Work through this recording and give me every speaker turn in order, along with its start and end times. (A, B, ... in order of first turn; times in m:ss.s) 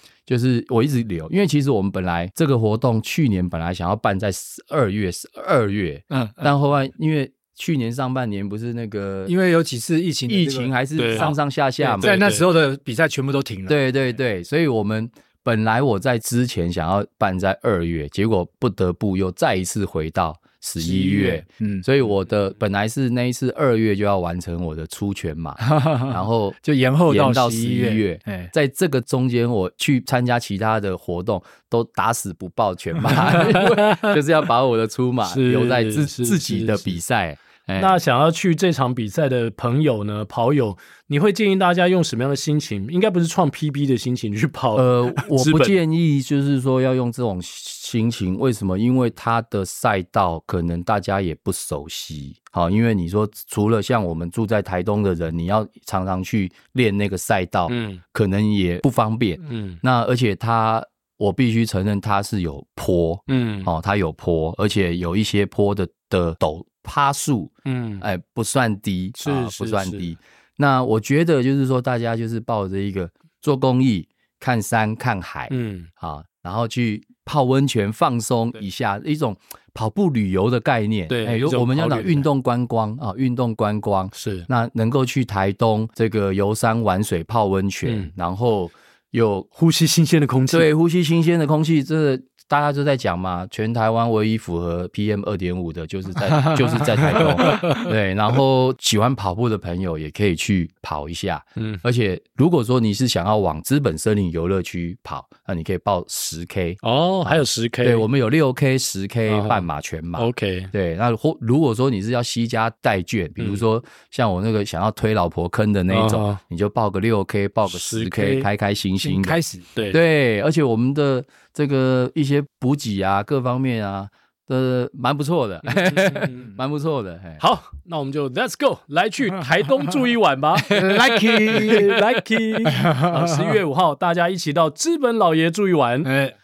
0:00.3-0:09.3 A
0:06.1-0:06.5 B
0:09.2-0:11.4 B
0:10.3-0:12.2 A
0:11.0-0:11.3 C
0:11.8-0:12.4 C
0:12.0-0:13.8 B
0:13.7-0:38.0 A
0:20.8-0:21.8 B
0:25.6-0:28.5 B
0:33.4-0:34.1 C
0:35.3-0:37.0 C
0:37.8-0:45.8 C
0:44.7-1:29.5 A
0:57.7-0:58.0 C
0:59.4-0:59.8 C
1:03.3-1:03.7 C
1:07.6-1:08.0 C
1:09.2-1:10.1 C
1:15.5-1:15.9 C
1:21.1-1:22.2 C
1:24.1-1:24.5 C
1:27.8-1:28.1 C
1:29.6-1:30.7 C
1:30.5-2:07.4 A
1:37.4-1:37.9 C
1:41.6-1:41.8 C
1:46.8-1:48.0 C
1:49.3-1:49.6 C
1:50.2-1:50.7 C
1:53.4-1:53.6 C
1:55.9-1:56.4 C
1:57.7-1:58.5 C
1:59.0-1:59.6 B
2:05.6-2:06.5 C
2:07.4-2:16.1 C
2:10.7-2:12.0 B
2:10.9-2:11.8 A
2:12.7-2:13.6 B
2:16.0-2:16.3 B